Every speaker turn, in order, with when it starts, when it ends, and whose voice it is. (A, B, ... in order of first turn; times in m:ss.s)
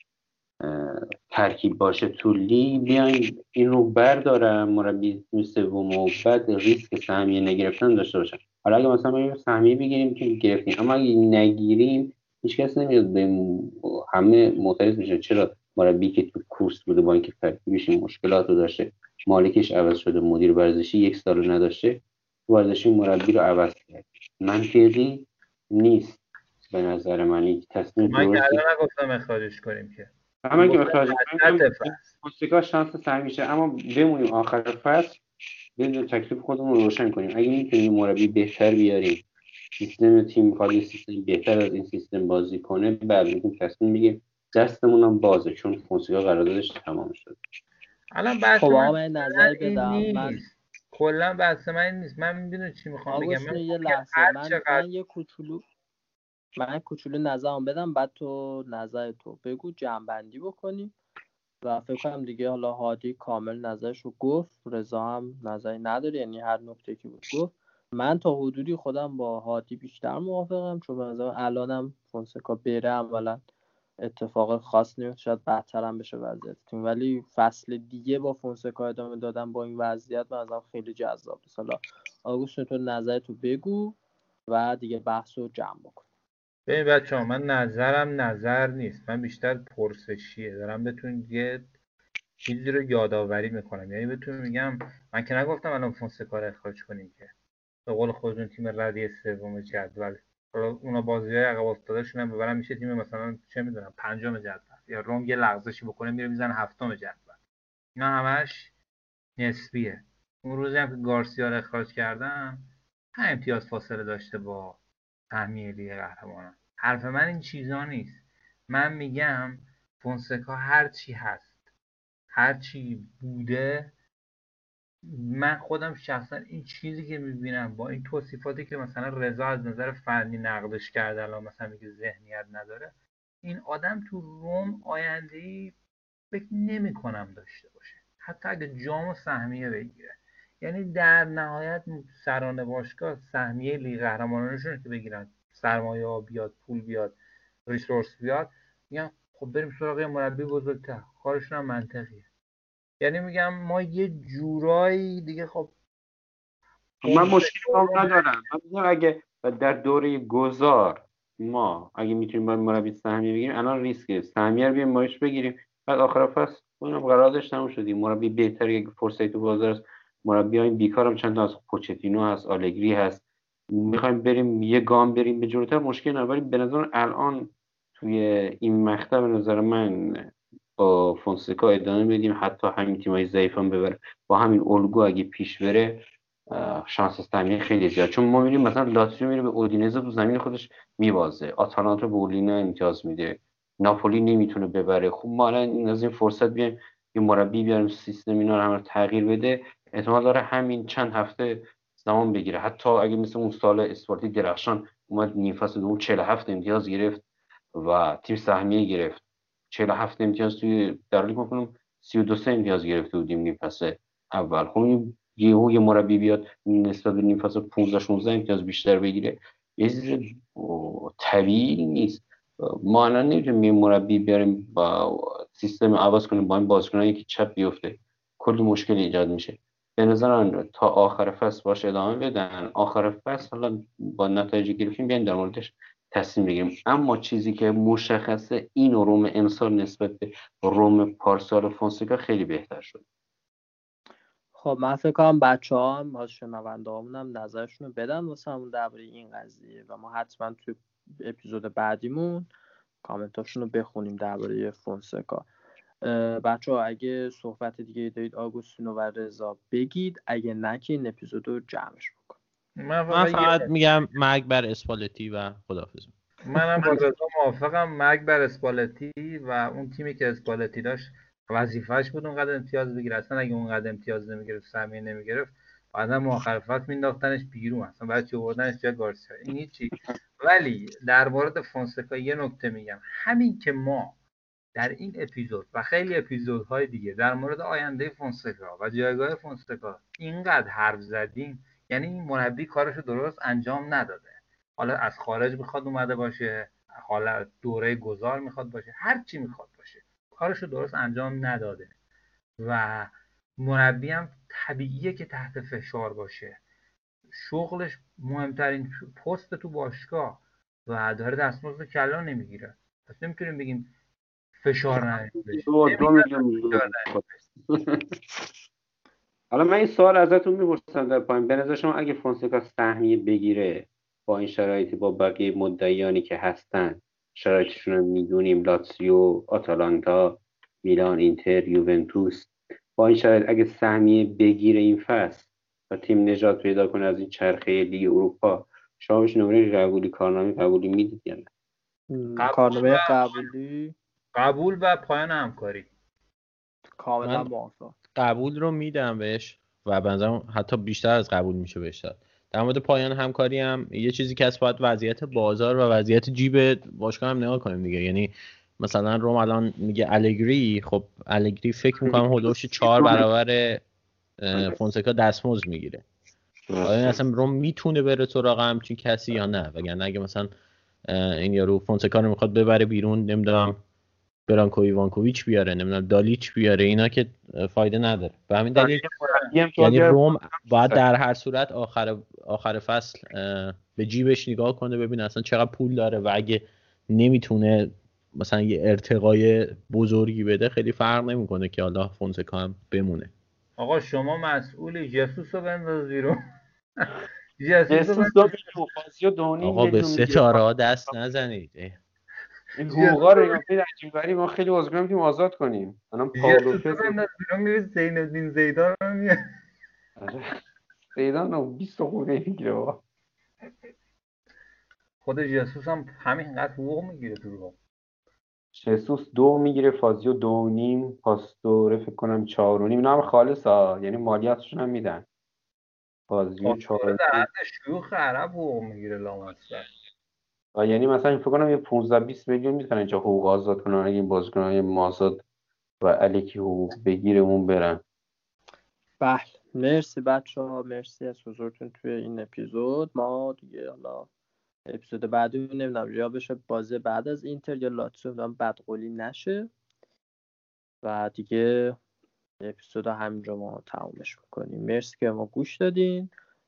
0:00.6-0:28.6 A
0:28.0-0:32.0 B
0:30.4-0:35.2 A
0:35.8-0:39.2 A
0:39.8-0:47.4 A
0:48.1-0:54.8 B
0:48.6-0:50.4 C
0:53.1-0:55.6 C
0:56.6-1:01.0 C
1:01.6-1:13.4 C
1:14.0-1:24.0 C
1:24.5-1:26.0 C
1:26.7-1:31.6 B
1:32.4-1:37.3 B
1:37.9-1:47.4 B
1:48.0-1:48.7 B
1:49.4-1:54.8 B
1:55.3-2:01.5 B
2:02.3-2:03.9 B
2:05.0-2:15.7 B
2:16.3-2:27.2 B
2:27.7-2:32.3 B
2:33.0-2:35.7 B
2:37.0-3:27.2 A
2:37.0-2:38.2 B
3:27.7-4:03.0 A
4:04.6-4:12.5 C
4:13.0-4:15.5 C
4:16.0-4:22.4 C
4:22.8-4:23.7 B
4:23.1-4:26.1 D
4:26.4-4:44.2 B
4:44.8-5:01.9 B
5:02.6-5:06.6 B
5:07.3-5:13.9 B
5:14.6-5:17.1 B
5:15.0-5:18.0 A
5:19.5-5:41.5 A
5:42.1-5:43.9 C
5:42.4-5:43.5 B
5:44.3-5:45.9 B
5:47.0-5:47.9 C
5:47.2-5:47.5 D
5:48.1-6:03.8 D
6:02.0-6:03.2 A
6:04.4-6:06.0 D
6:06.7-6:07.2 A
6:06.8-6:10.5 D
6:11.1-6:13.8 D
6:14.5-6:19.0 D
6:18.8-6:21.0 A
6:19.8-6:33.3 D
6:33.8-6:36.4 B
6:37.0-6:38.6 B
6:37.9-6:40.6 A
6:39.6-6:42.0 D
6:42.8-6:47.1 A
6:42.9-6:43.6 B
6:46.4-6:49.4 B
6:51.1-6:53.0 A
6:55.2-6:57.8 B
6:58.7-7:05.2 A
7:06.3-7:07.4 A
7:06.6-7:09.9 B
7:10.7-7:15.4 A
7:16.0-7:18.0 A
7:19.2-7:24.3 C
7:24.9-7:29.7 C
7:31.0-7:32.0 C
7:32.6-7:36.3 C